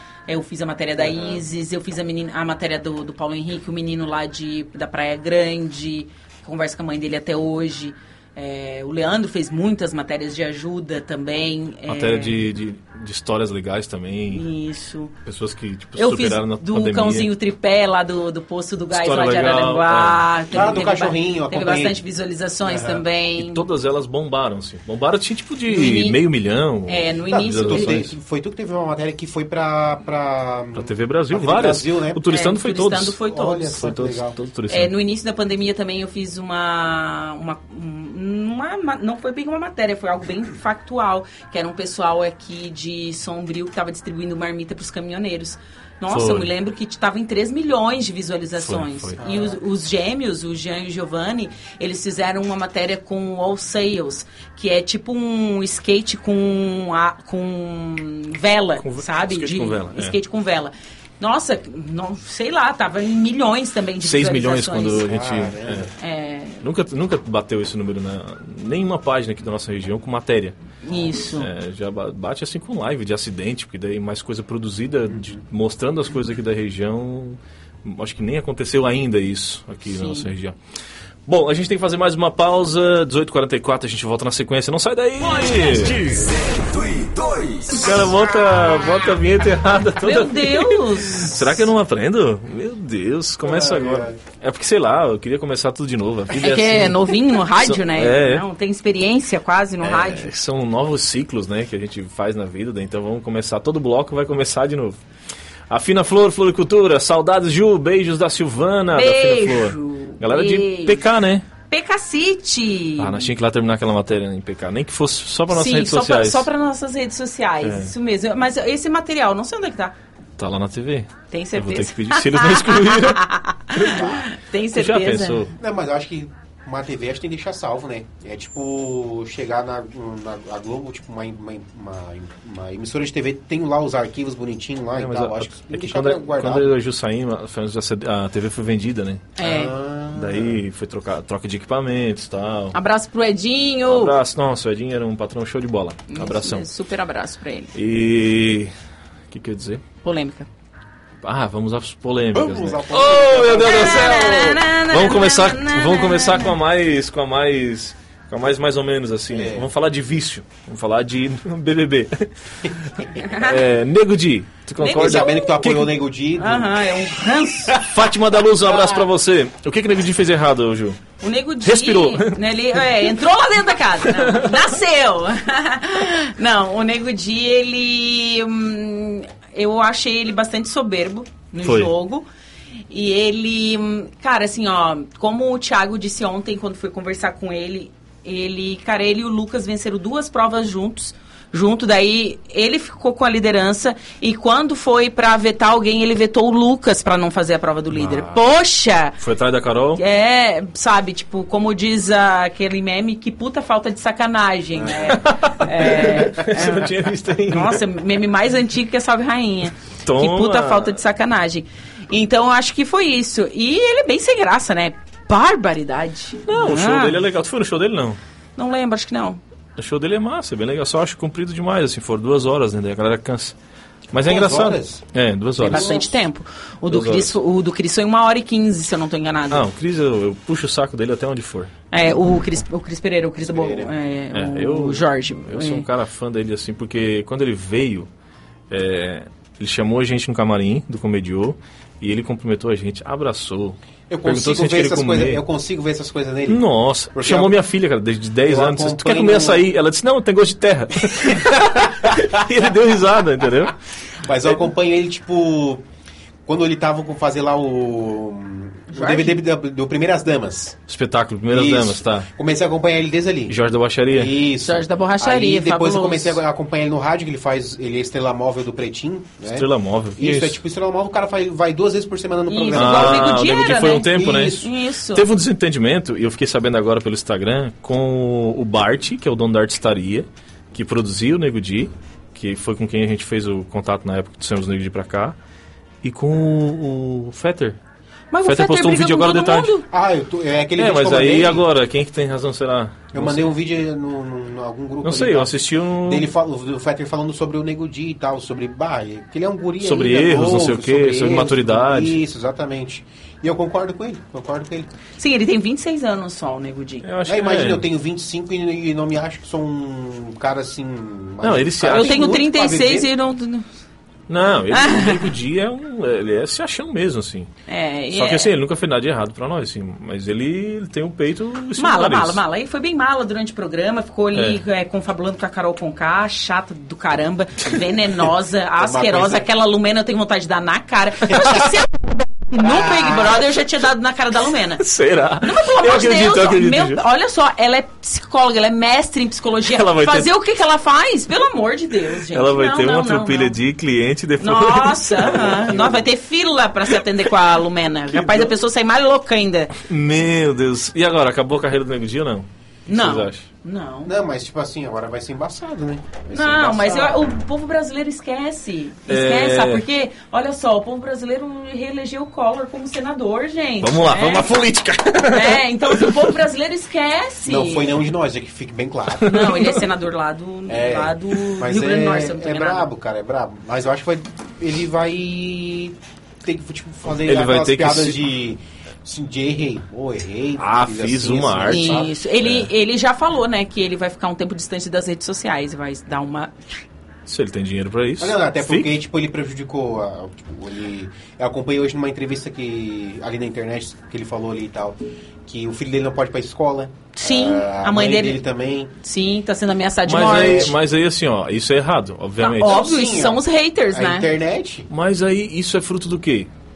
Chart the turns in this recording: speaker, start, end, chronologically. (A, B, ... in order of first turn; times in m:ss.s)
0:00.3-0:12.4 A
0:01.0-0:01.4 B
0:11.9-0:14.4 C
0:14.3-0:15.1 A
0:15.2-0:17.3 C
0:16.0-0:23.6 A
0:18.9-0:20.6 C
0:20.5-0:22.0 B
0:22.6-0:23.0 B
0:23.4-0:28.1 C
0:25.7-0:26.2 A
0:26.9-0:28.0 A
0:27.3-0:32.2 B
0:30.7-0:34.9 C
0:32.3-0:33.8 A
0:33.3-0:34.4 B
0:34.7-1:05.1 A
0:46.1-0:46.5 C
0:48.6-0:49.2 C
0:49.2-0:49.6 B
0:58.8-1:00.2 C
1:04.0-1:05.9 C
1:05.0-1:05.9 B
1:06.0-1:06.6 A
1:06.6-1:10.6 C
1:10.8-1:11.5 A
1:11.4-1:20.5 C
1:15.1-1:15.4 B
1:19.9-1:20.3 A
1:21.3-1:26.0 C
1:25.2-1:28.1 D
1:27.8-1:38.4 C
1:30.0-1:31.6 A
1:33.4-1:34.2 B
1:36.4-1:40.3 A
1:39.8-1:45.0 C
1:45.7-1:51.4 C
1:48.9-1:51.1 A
1:51.7-1:53.3 A
1:53.0-1:56.5 C
1:55.5-1:59.9 A
1:57.6-1:57.9 C
2:00.4-2:05.5 C
2:01.3-2:05.5 A
2:05.6-2:16.7 B
2:15.0-2:19.4 C
2:19.4-2:19.7 A
2:19.4-2:20.6 B
2:20.1-2:22.8 C
2:22.7-2:24.1 A
2:23.9-2:26.6 C
2:26.1-2:27.7 A
2:27.7-2:28.7 C
2:29.3-2:29.8 C
2:30.0-2:30.5 A
2:31.2-2:45.9 C
2:32.3-2:34.2 B
2:33.5-2:36.5 A
2:39.3-2:39.7 B
2:43.1-2:43.6 A
2:44.8-2:45.6 A
2:44.9-2:46.8 B
2:46.4-2:47.8 A
2:47.8-2:51.0 C
2:51.2-3:02.2 A
2:51.6-2:53.1 C
2:54.1-2:54.6 C
3:01.6-3:01.9 C
3:02.9-3:19.2 A
3:17.9-3:18.4 C
3:19.2-3:20.0 C
3:20.0-3:37.2 A
3:24.9-3:27.8 C
3:30.0-3:31.0 C
3:36.4-3:38.2 C
3:38.6-3:39.4 A
3:39.8-3:43.5 C
3:44.1-3:46.0 C
3:44.1-3:45.0 B
3:45.6-3:46.2 B
3:45.6-3:49.7 A
3:46.9-3:47.4 C
3:49.5-3:51.7 C
3:51.9-3:55.8 A
3:53.4-3:53.9 B
3:54.3-3:58.1 C
3:58.7-4:05.4 C
4:04.1-4:06.6 B
4:06.5-4:13.7 C
4:07.1-4:07.5 B
4:08.4-4:09.6 B
4:14.2-4:15.8 B
4:16.4-4:20.8 B
4:18.9-4:19.4 A
4:20.9-4:22.3 C
4:21.5-4:23.6 B
4:23.5-4:24.3 C
4:24.1-4:33.5 B
4:24.6-4:26.4 A
4:29.5-4:30.6 C
4:32.5-4:35.2 A
4:32.7-4:45.4 C
4:34.1-4:34.6 B
4:46.0-4:47.8 C
4:48.3-4:49.8 A
4:48.4-4:49.7 C
4:49.9-4:51.6 B
4:50.8-4:53.5 C
4:53.1-5:04.9 B
4:55.0-4:56.3 C
4:59.8-5:02.2 C
5:05.2-5:07.0 A
5:07.0-5:07.8 C
5:07.2-5:13.1 B
5:11.4-5:12.4 C
5:11.8-5:13.6 A
5:14.3-5:17.5 C
5:14.7-5:15.3 A
5:17.7-5:18.5 A
5:18.1-5:22.4 C
5:21.8-5:34.8 A
5:24.3-5:24.6 C
5:28.8-5:29.4 B
5:32.8-5:33.4 B
5:34.8-5:37.0 C
5:35.4-5:43.6 A
5:39.6-5:40.3 C
5:42.3-5:46.0 C
5:44.4-5:49.8 A
5:48.1-5:48.6 C
5:49.8-5:53.4 C
5:52.9-5:54.1 A
5:54.0-5:57.3 B
5:56.3-6:04.5 A
5:59.1-5:59.8 C
6:03.8-6:06.3 C
6:05.3-6:08.0 A
6:07.4-6:09.4 B
6:09.2-6:09.8 C
6:09.2-6:12.9 A
6:10.7-6:22.1 B
6:17.1-6:18.2 C
6:20.6-6:22.7 C
6:21.6-6:26.6 A
6:27.3-6:28.9 C
6:28.2-6:38.9 B
6:37.1-6:38.4 A
6:39.0-6:40.7 A
6:40.0-6:42.8 C
6:40.1-6:40.8 B
6:42.4-6:44.3 A
6:42.6-6:44.9 B
6:44.9-6:46.5 C